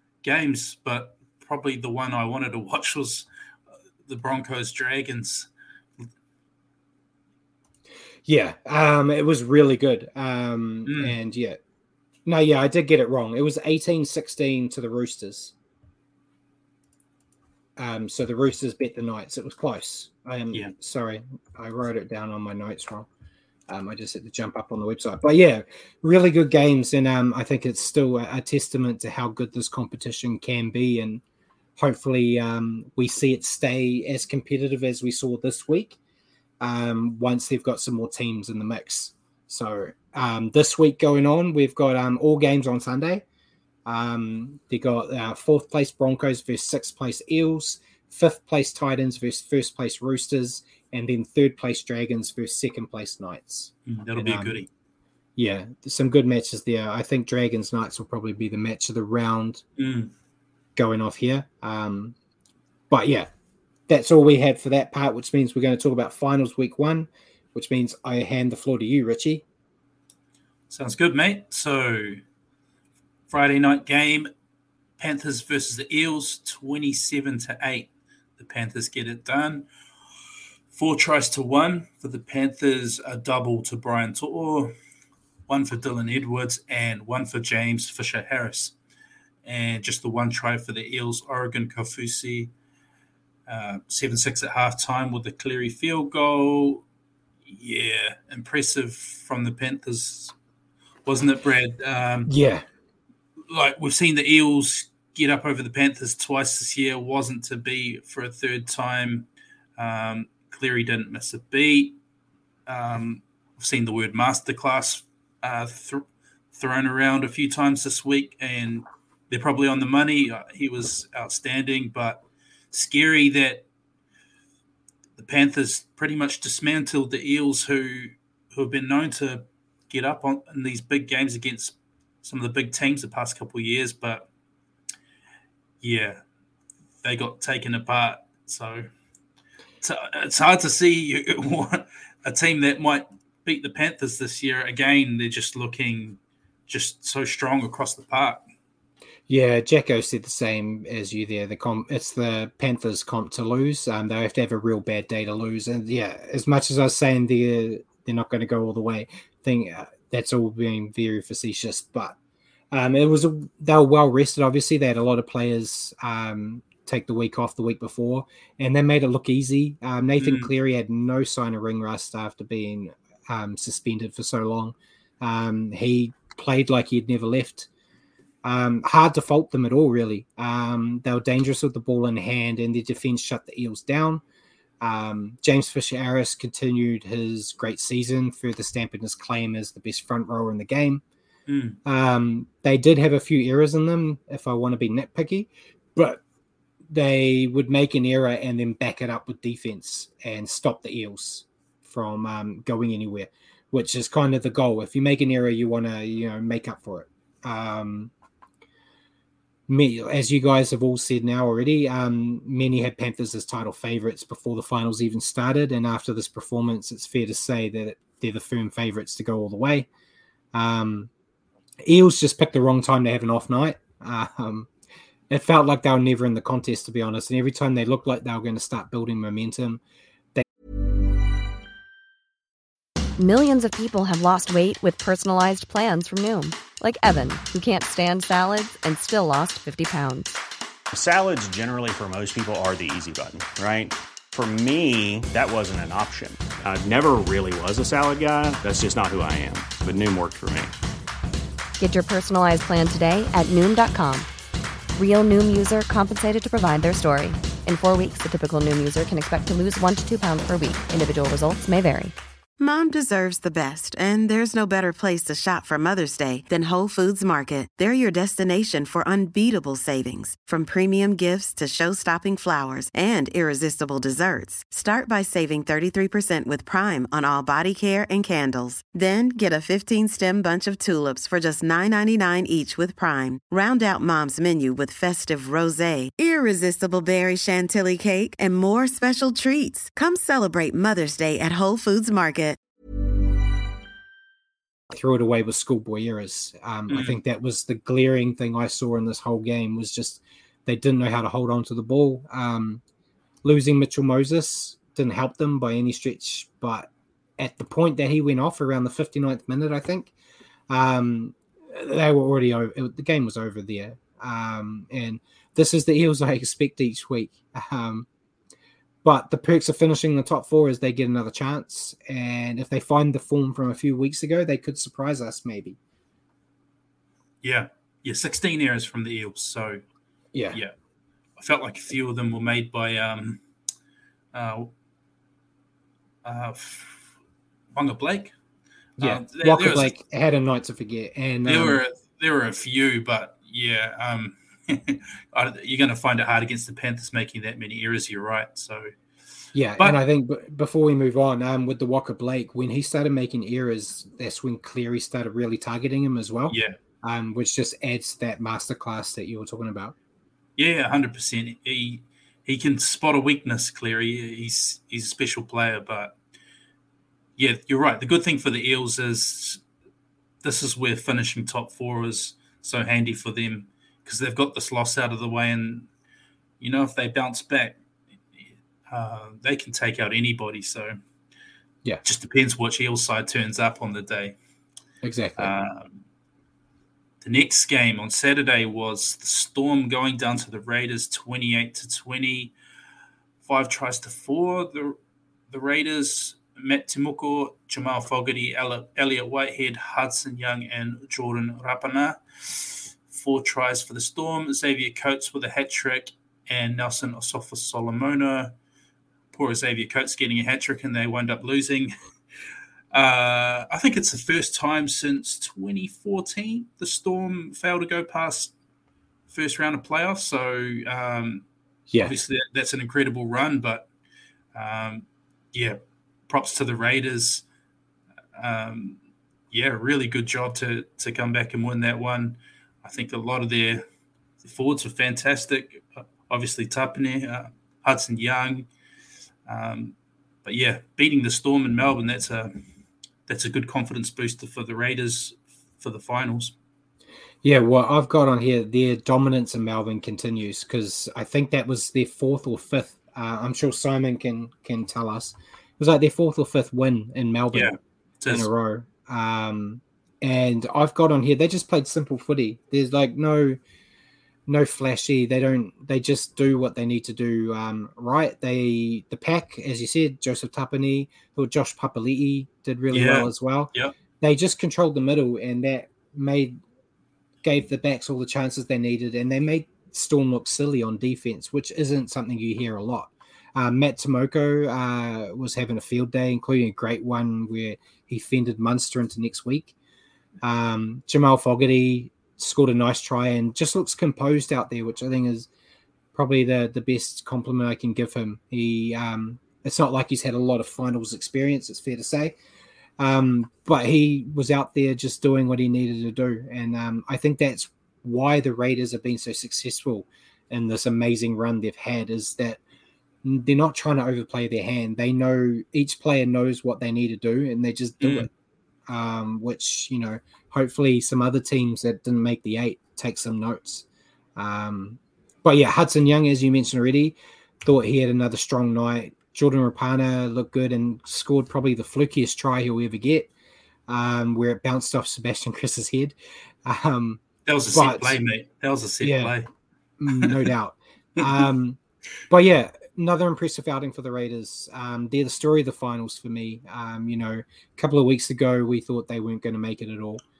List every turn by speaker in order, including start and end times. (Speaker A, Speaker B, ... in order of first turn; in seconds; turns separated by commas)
Speaker A: 0.2-3.3, Speaker A: 4.1-5.5, Speaker B: 8.3-11.6, Speaker A: 10.9-11.2, Speaker B: 12.3-15.5, Speaker B: 17.8-23.1, Speaker B: 23.7-31.2, Speaker B: 31.8-36.0, Speaker B: 36.6-43.2, Speaker B: 43.9-54.6, Speaker A: 53.9-54.7, Speaker B: 55.4-59.6, Speaker A: 59.8-60.1, Speaker B: 60.8-62.1, Speaker B: 62.9-63.3, Speaker B: 63.9-69.4, Speaker A: 70.7-72.2, Speaker A: 73.3-74.3, Speaker A: 75.0-79.7, Speaker A: 80.7-84.8, Speaker A: 85.5-88.8, Speaker A: 89.4-92.5, Speaker A: 93.5-96.8, Speaker A: 97.5-100.3, Speaker A: 101.1-102.3, Speaker B: 102.3-102.7, Speaker A: 103.5-109.3, Speaker A: 109.8-112.0, Speaker A: 112.7-123.7, Speaker A: 125.2-134.3, Speaker A: 135.8-136.2, Speaker A: 137.0-138.9, Speaker A: 139.8-148.4, Speaker B: 149.3-162.2, Speaker B: 162.7-177.7, Speaker A: 170.2-170.5, Speaker B: 178.4-184.2, Speaker B: 184.8-191.0, Speaker A: 191.5-191.8, Speaker B: 191.8-196.2, Speaker B: 196.9-208.1, Speaker B: 209.7-219.9, Speaker B: 220.5-221.1, Speaker B: 221.8-224.7, Speaker B: 225.3-229.8, Speaker C: 233.2-240.4, Speaker D: 240.9-250.7, Speaker C: 251.8-254.3, Speaker C: 255.0-262.1, Speaker E: 262.6-292.6, Speaker B: 294.9-302.8, Speaker A: 296.9-297.2, Speaker B: 303.4-310.1, Speaker B: 310.7-318.1, Speaker B: 319.0-325.8, Speaker A: 327.4-329.8, Speaker B: 330.3-330.6, Speaker A: 331.4-333.4, Speaker A: 334.3-334.7, Speaker A: 336.2-337.1, Speaker A: 337.7-338.4, Speaker A: 339.0-339.9, Speaker B: 339.0-341.8, Speaker A: 341.4-348.9, Speaker B: 349.5-359.9, Speaker A: 356.5-356.8, Speaker A: 360.6-366.1, Speaker A: 367.4-369.6, Speaker A: 370.4-375.9, Speaker A: 376.6-377.8, Speaker A: 378.9-381.0, Speaker A: 382.0-384.4, Speaker B: 385.0-385.5, Speaker A: 385.4-386.0, Speaker A: 387.2-392.5, Speaker A: 393.4-395.0, Speaker A: 395.5-408.5, Speaker A: 409.3-411.9, Speaker A: 412.9-418.5, Speaker A: 419.3-421.4, Speaker B: 421.9-422.2, Speaker A: 422.0-423.9, Speaker A: 424.6-427.4, Speaker A: 428.4-429.0, Speaker A: 429.5-433.9, Speaker A: 434.4-438.7, Speaker A: 439.5-442.6, Speaker A: 443.3-446.6, Speaker B: 447.4-457.8, Speaker A: 457.5-458.5, Speaker B: 458.3-463.6, Speaker B: 464.5-476.6, Speaker A: 472.9-473.9, Speaker B: 477.4-489.8, Speaker B: 490.4-495.5, Speaker B: 496.1-502.4, Speaker B: 503.0-512.6, Speaker B: 513.2-518.3, Speaker A: 518.0-518.3, Speaker B: 518.9-533.3, Speaker B: 533.9-538.2, Speaker A: 537.5-539.5, Speaker B: 539.0-539.4, Speaker B: 540.0-550.2, Speaker A: 540.2-540.4